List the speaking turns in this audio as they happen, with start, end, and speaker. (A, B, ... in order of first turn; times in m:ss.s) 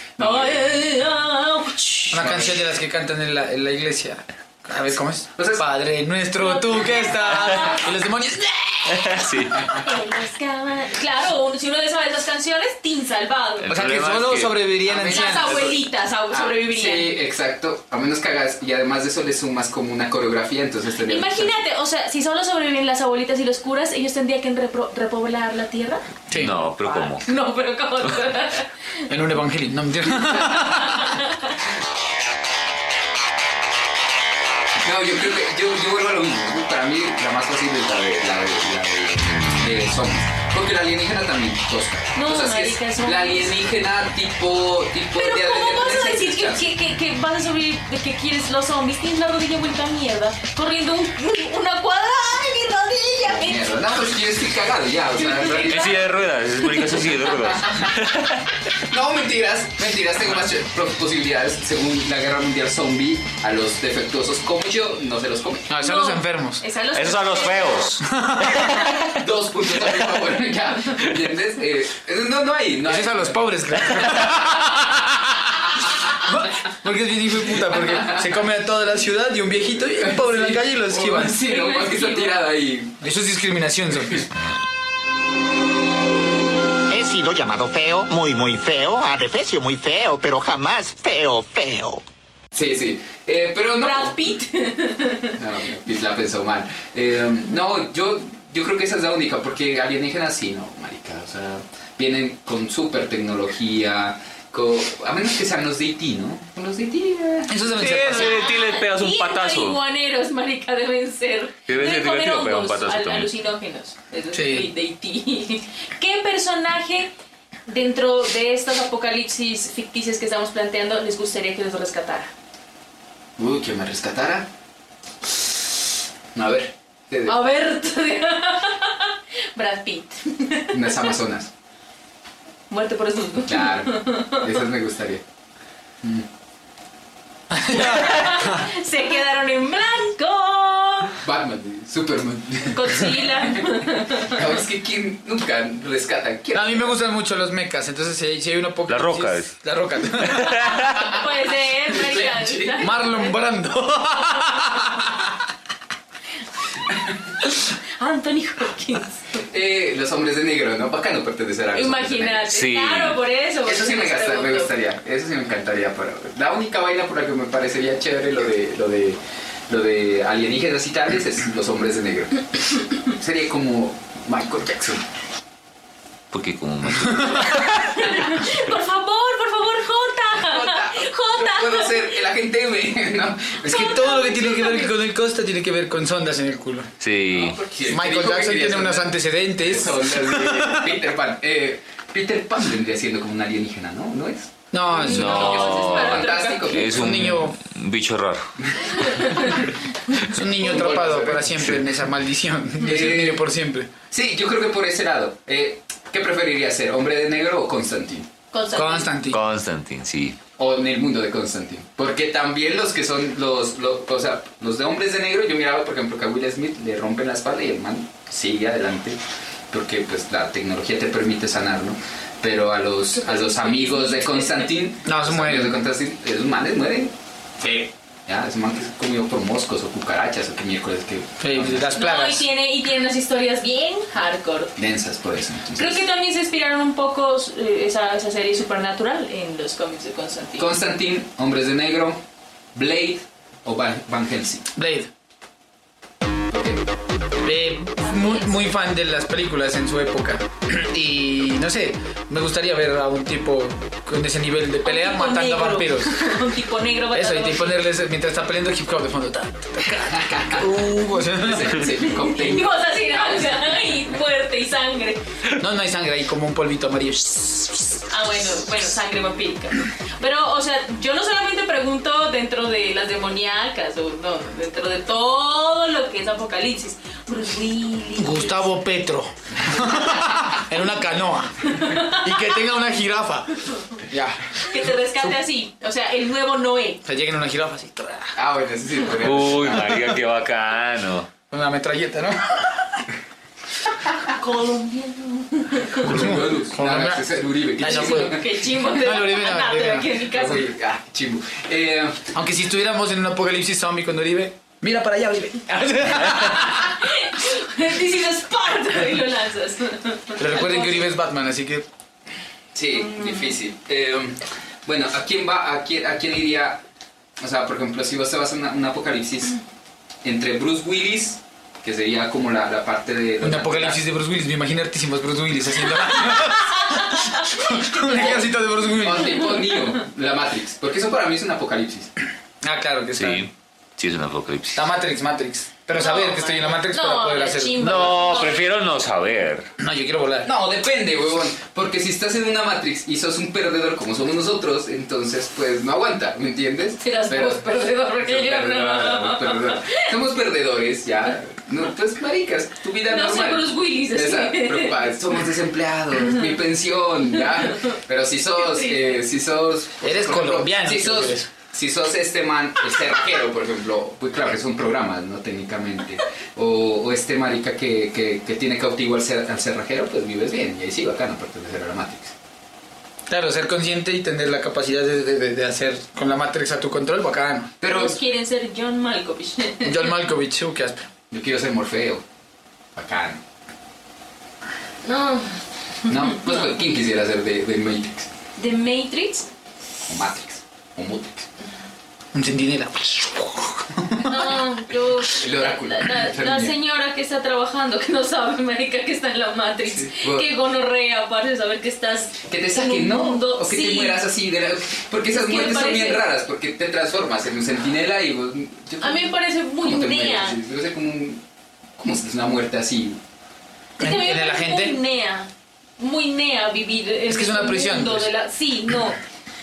0:00.2-0:00.7 A
0:00.2-0:02.4 B
0:02.1-0:09.4 C
0:02.1-0:02.6 A
0:05.4-0:05.7 A
0:06.4-0:07.9 B
0:08.9-0:09.7 D
0:09.7-0:13.7 B
0:13.6-0:14.7 D
0:13.7-0:15.7 C
0:14.9-0:21.5 A
0:15.1-0:17.1 B
0:21.1-0:26.0 B
0:26.3-0:26.6 C
0:26.3-0:27.3 D
0:26.8-0:28.7 B
0:29.1-0:31.1 C
0:30.4-0:31.5 B
0:34.8-0:46.7 A
0:42.1-0:43.6 B
0:45.2-0:53.8 B
0:53.2-0:56.0 A
0:55.2-0:56.0 B
0:55.5-0:58.4 D
0:57.4-0:57.8 A
0:58.9-1:05.7 A
1:05.7-1:06.6 C
1:05.8-1:07.8 B
1:06.9-1:08.9 D
1:08.0-1:08.8 C
1:09.2-1:13.4 A
1:12.8-1:15.5 C
1:16.2-1:21.4 C
1:17.8-1:18.3 A
1:20.0-1:23.0 A
1:21.4-1:22.5 B
1:23.0-1:24.3 C
1:26.9-1:32.0 E
1:32.5-1:34.2 A
1:33.8-1:35.4 B
1:35.4-1:47.6 A
1:47.5-1:48.5 C
1:47.8-1:49.8 D
1:48.0-1:57.1 B
1:51.7-1:53.3 D
1:54.3-1:54.7 C
1:57.7-2:02.3 B
2:03.4-2:04.5 A
2:06.3-2:07.4 A
2:07.3-2:11.1 B
2:10.7-2:11.5 A
2:12.7-2:14.4 B
2:13.5-2:15.2 A
2:17.5-2:18.6 C
2:17.7-2:21.2 B
2:21.2-2:23.7 A
2:22.7-2:24.4 B
2:24.2-2:27.0 A
2:26.5-2:30.8 C
2:28.9-2:29.6 D
2:30.2-2:31.0 D
2:31.0-2:33.4 B
2:31.9-2:32.9 A
2:32.8-2:35.3 C
2:38.0-2:39.4 B
2:39.5-2:42.5 A
2:41.7-2:44.7 B
2:42.5-2:43.2 D
2:43.6-2:52.5 A
2:53.0-2:55.0 A
2:56.3-2:57.9 D
2:57.7-3:02.2 B
3:00.4-3:03.9 A
3:03.6-3:05.0 B
3:03.7-3:06.9 C
3:07.0-3:07.6 D
3:07.3-3:17.2 A
3:07.9-3:11.0 C
3:14.7-3:15.7 C
3:14.9-3:16.8 B
3:15.0-3:18.5 D
3:16.9-3:17.6 C
3:18.9-3:19.6 B
3:20.3-3:23.9 C
3:20.6-3:21.6 A
3:22.8-3:23.4 A
3:24.1-3:28.3 A
3:28.5-3:29.1 B
3:28.7-3:29.4 C
3:29.3-3:30.4 D
3:30.6-3:39.2 A
3:39.7-3:51.9 A
3:43.1-3:44.8 B
3:45.0-3:45.8 C
3:51.4-3:52.5 C
3:51.9-3:54.7 B
3:54.8-3:56.0 A
3:55.8-4:00.7 B
4:00.6-4:02.2 A
4:02.8-4:04.6 A
4:04.8-4:05.1 C
4:06.5-4:06.9 A
4:07.4-4:16.4 C
4:08.0-4:08.6 B
4:14.8-4:17.8 B
4:17.1-4:21.9 C
4:20.1-4:20.7 A
4:21.3-4:23.9 A
4:22.1-4:25.2 B
4:25.6-4:28.0 C
4:28.1-4:38.7 B
4:38.2-4:45.4 C
4:41.8-4:42.2 B
4:44.6-4:47.0 B
4:47.0-4:48.4 C
4:48.4-4:50.1 A
4:49.2-4:51.3 D
4:51.5-4:53.1 C
4:54.3-4:56.1 B
4:56.0-4:58.4 A
4:56.0-5:00.1 C
4:57.8-5:00.7 B
5:00.3-5:02.3 A
5:02.3-5:07.0 C
5:06.8-5:11.1 B
5:10.4-5:11.9 C
5:12.7-5:16.8 A
5:13.0-5:13.5 B
5:17.4-5:19.6 A
5:20.2-5:24.0 A
5:23.4-5:29.5 C
5:26.8-5:28.4 B
5:28.1-5:32.1 A
5:32.6-5:33.5 C
5:33.2-5:34.8 D
5:34.7-5:38.2 C
5:36.0-5:38.6 B
5:37.8-5:39.7 D
5:39.8-5:40.5 C
5:40.4-6:12.3 A
5:47.0-5:50.0 B
5:53.1-5:55.1 B
5:57.4-5:58.0 B
5:58.6-5:59.2 B
6:00.0-6:01.5 C
6:13.3-6:17.7 C
6:17.8-6:18.2 A
6:17.8-6:20.0 B
6:19.8-6:21.1 C
6:21.3-6:22.2 A
6:23.0-6:23.4 A
6:25.0-6:25.6 B
6:26.1-6:28.3 A
6:26.1-6:26.6 B
6:28.6-6:29.5 B
6:30.1-6:31.5 A
6:32.3-6:34.5 C
6:34.2-6:44.2 B
6:35.3-6:36.8 A
6:39.9-6:40.5 A
6:42.5-6:51.4 A
6:45.3-6:46.2 B
6:49.0-6:50.6 B
6:52.0-6:53.2 A
6:54.0-6:55.0 C
6:54.0-6:59.2 B
6:57.3-6:58.3 C